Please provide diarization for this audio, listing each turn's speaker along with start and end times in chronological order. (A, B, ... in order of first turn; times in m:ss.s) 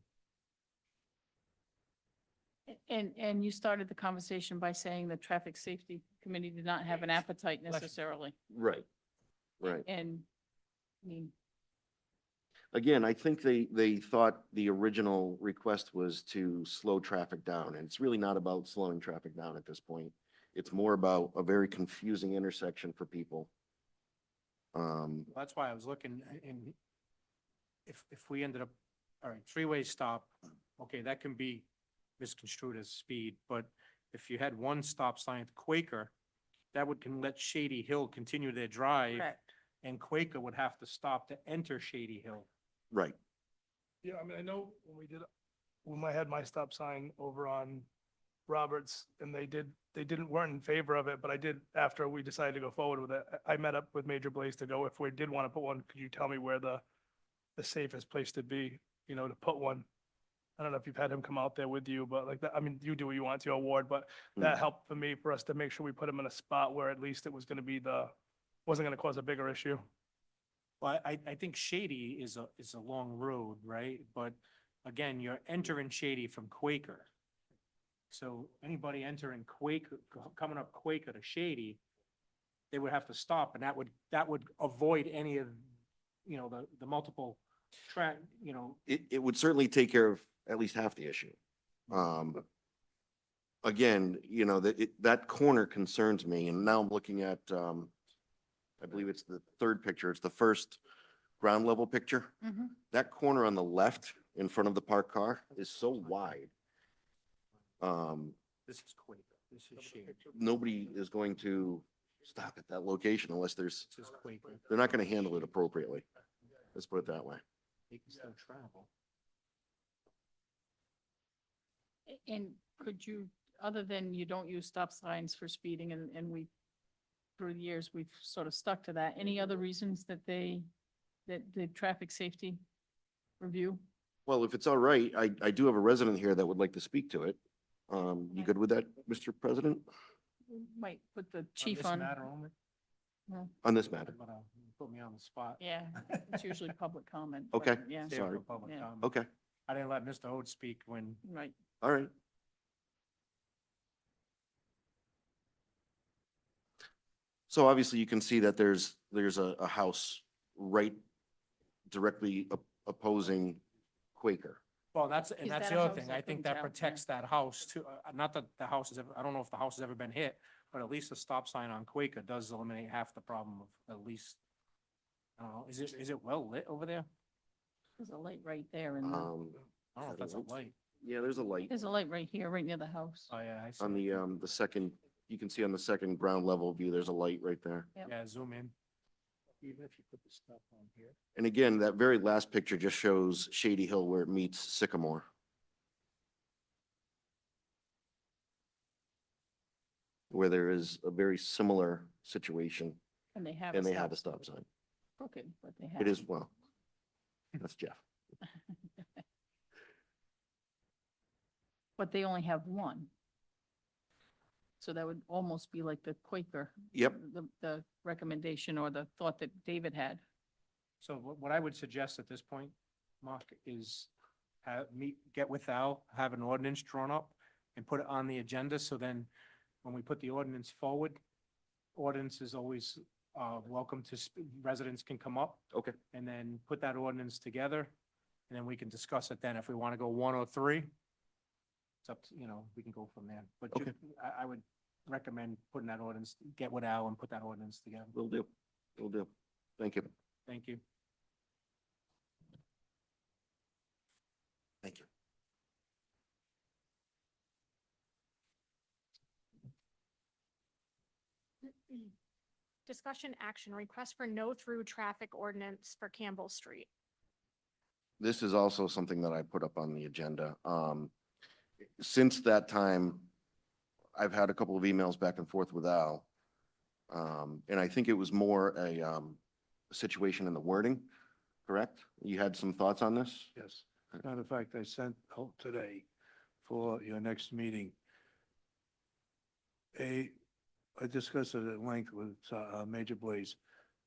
0:02.7-0:08.3 A
0:08.5-0:08.8 B
0:09.6-0:09.8 B
0:09.6-0:10.2 A
0:11.0-0:11.3 A
0:12.7-0:23.5 B
0:24.7-0:25.3 B
0:25.3-0:26.8 C
0:27.8-0:28.7 C
0:29.2-0:31.6 C
0:32.2-0:36.1 C
0:36.7-0:42.5 C
0:39.1-0:39.4 A
0:42.9-0:43.2 B
0:44.0-0:45.3 D
0:45.8-0:47.9 D
0:48.5-0:56.8 D
0:57.6-0:59.8 D
1:00.6-1:08.1 D
1:08.6-1:09.8 D
1:10.8-1:17.1 C
1:18.1-1:21.8 C
1:22.7-1:25.6 C
1:26.2-1:28.8 C
1:28.9-1:31.4 B
1:31.9-1:32.4 B
1:33.6-1:37.9 B
1:38.8-1:40.8 B
1:41.4-1:42.3 B
1:42.4-1:42.7 A
1:42.9-1:46.5 B
1:47.8-1:48.4 B
1:48.7-1:50.2 C
1:50.2-1:53.9 B
1:53.9-1:54.6 C
1:54.7-1:56.0 B
1:56.7-1:57.4 B
1:57.9-1:58.9 C
2:02.1-2:06.5 A
2:07.4-2:10.7 A
2:11.2-2:12.6 A
2:13.4-2:13.8 A
2:14.3-2:17.4 B
2:17.9-2:19.8 B
2:20.5-2:22.2 A
2:21.6-2:22.5 C
2:23.6-2:24.1 B
2:23.9-2:26.4 C
2:25.6-2:28.8 A
2:27.5-2:28.4 B
2:28.0-2:29.1 C
2:29.0-2:29.3 B
2:29.7-2:31.2 C
2:31.2-2:31.5 A
2:31.8-2:32.1 B
2:37.5-2:41.0 B
2:41.9-2:43.6 B
2:44.2-2:44.6 B
2:44.9-2:54.4 C
2:45.4-2:47.0 A
2:55.4-2:57.1 C
2:58.0-2:59.3 A
2:59.0-3:01.7 B
3:00.0-3:00.7 C
3:01.7-3:03.3 A
3:03.3-3:04.2 C
3:03.8-3:07.9 B
3:08.0-3:08.7 C
3:09.6-3:11.1 C
3:11.3-3:15.2 B
3:20.3-3:23.0 B
3:23.3-3:24.2 A
3:23.7-3:24.6 B
3:25.2-3:26.2 A
3:26.0-3:26.5 B
3:27.6-3:28.0 B
3:32.0-3:33.1 A
3:34.8-3:40.2 A
3:36.9-3:37.2 B
3:41.0-3:44.1 C
3:44.6-3:49.3 C
3:49.8-3:51.2 C
3:51.9-3:57.9 C
3:58.5-4:00.9 C
4:02.0-4:08.1 C
4:08.1-4:10.1 B
4:10.5-4:10.8 C
4:21.6-4:22.1 E
4:22.8-4:26.9 E
4:28.2-4:31.1 B
4:32.0-4:33.3 B
4:34.2-4:36.2 B
4:37.1-4:39.4 B
4:39.9-4:41.1 B
4:41.7-4:43.5 B
4:43.5-4:46.1 F
4:46.6-4:47.9 F
4:49.9-4:50.3 F
4:51.0-4:53.6 F